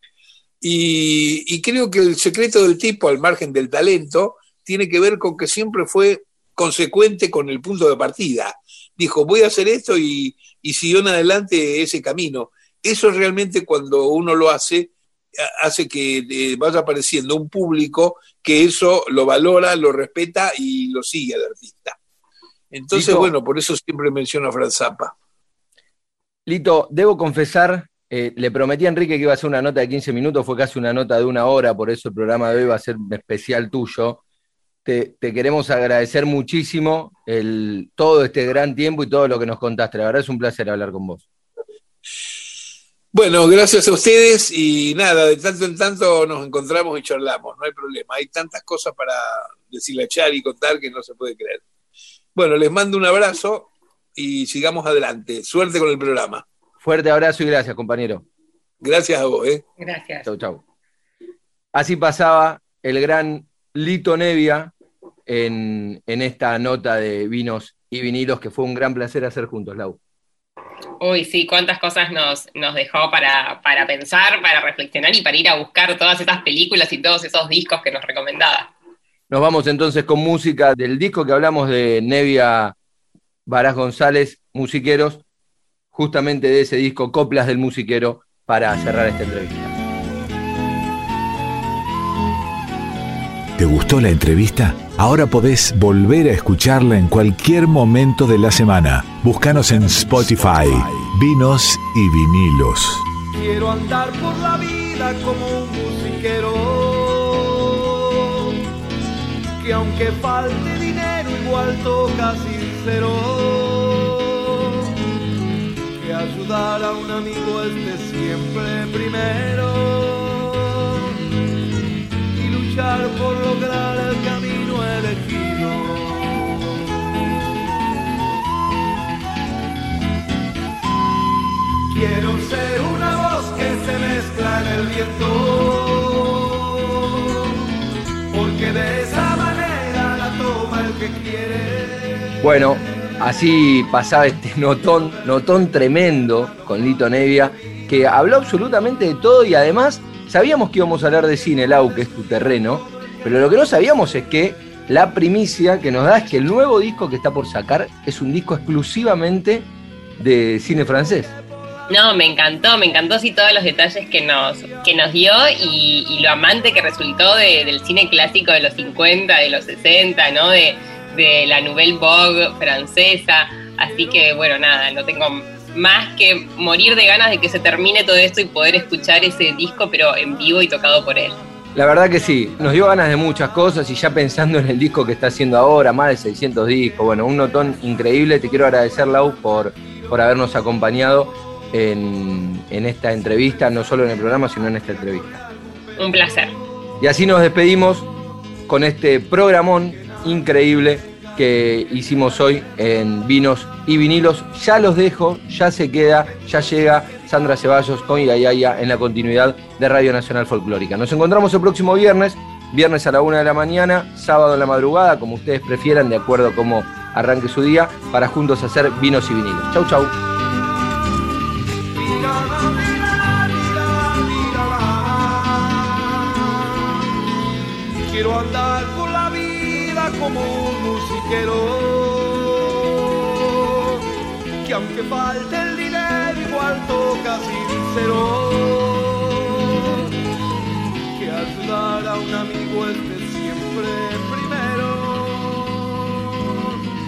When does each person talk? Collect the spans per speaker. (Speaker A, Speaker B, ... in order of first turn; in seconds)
Speaker A: 0.6-22.0, 22.7-25.1, 43.1-51.6, 52.3-56.4, 58.8-59.6
Speaker B: 22.9-23.3, 26.5-34.2, 34.8-41.3, 56.8-58.2, 60.2-60.6, 61.7-64.7, 65.3-70.0, 79.3-82.7, 83.5-85.2, 85.9-89.7, 142.4-161.3, 181.7-195.4, 197.0-198.1, 198.7-220.1
Speaker C: 59.8-60.2, 71.0-78.7, 161.9-181.4, 196.0-196.5
Speaker D: 93.6-103.0
Speaker E: 103.3-108.5, 109.6-114.8, 115.9-121.1, 122.3-127.5, 131.9-137.5, 138.3-142.3, 221.9-227.0, 228.1-234.0, 234.6-240.1, 241.1-246.7